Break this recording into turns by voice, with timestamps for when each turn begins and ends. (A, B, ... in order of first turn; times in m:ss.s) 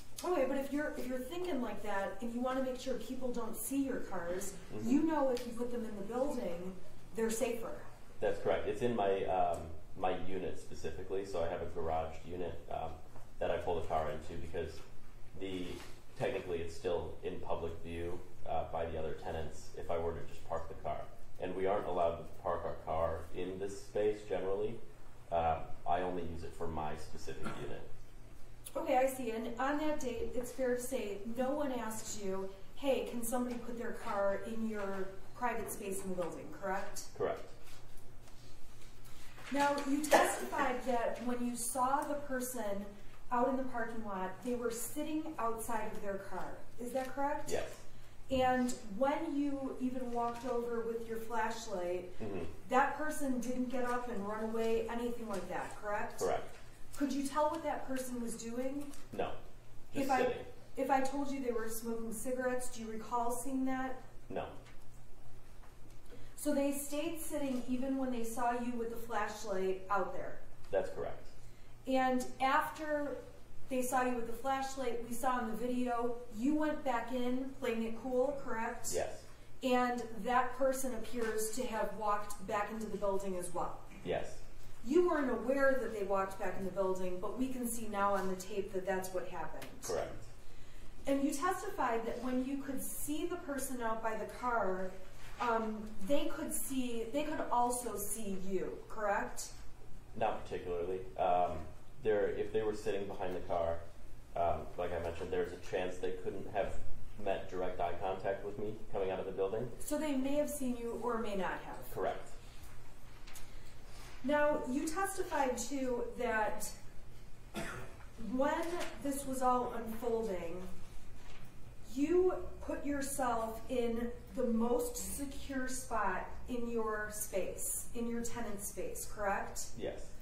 0:00.2-0:07.8 A
0:04.7-0:05.0 B
0:08.2-0:14.8 B
0:15.3-0:27.9 B
0:28.7-0:37.1 A
0:37.1-0:37.5 B
0:39.5-0:47.6 A
0:47.4-0:47.8 B
0:48.3-0:56.3 A
0:52.2-0:52.5 B
0:56.2-0:56.5 B
0:56.9-0:58.9 A
0:59.1-0:59.4 B
0:59.9-1:00.5 B
0:59.9-1:04.0 A
1:04.3-1:04.5 B
1:06.4-1:10.4 A
1:10.7-1:11.3 B
1:11.8-1:19.0 A
1:18.8-1:19.2 B
1:19.6-1:23.8 A
1:24.0-1:24.4 B
1:24.8-1:29.9 A
1:29.8-1:30.3 B
1:31.0-1:39.5 A
1:40.1-1:43.8 B
1:44.3-1:49.7 B
1:49.8-1:51.9 A
1:51.9-1:52.4 B
1:54.2-1:56.7 A
1:58.2-2:00.7 A
2:01.8-2:09.7 A
2:09.7-2:10.1 B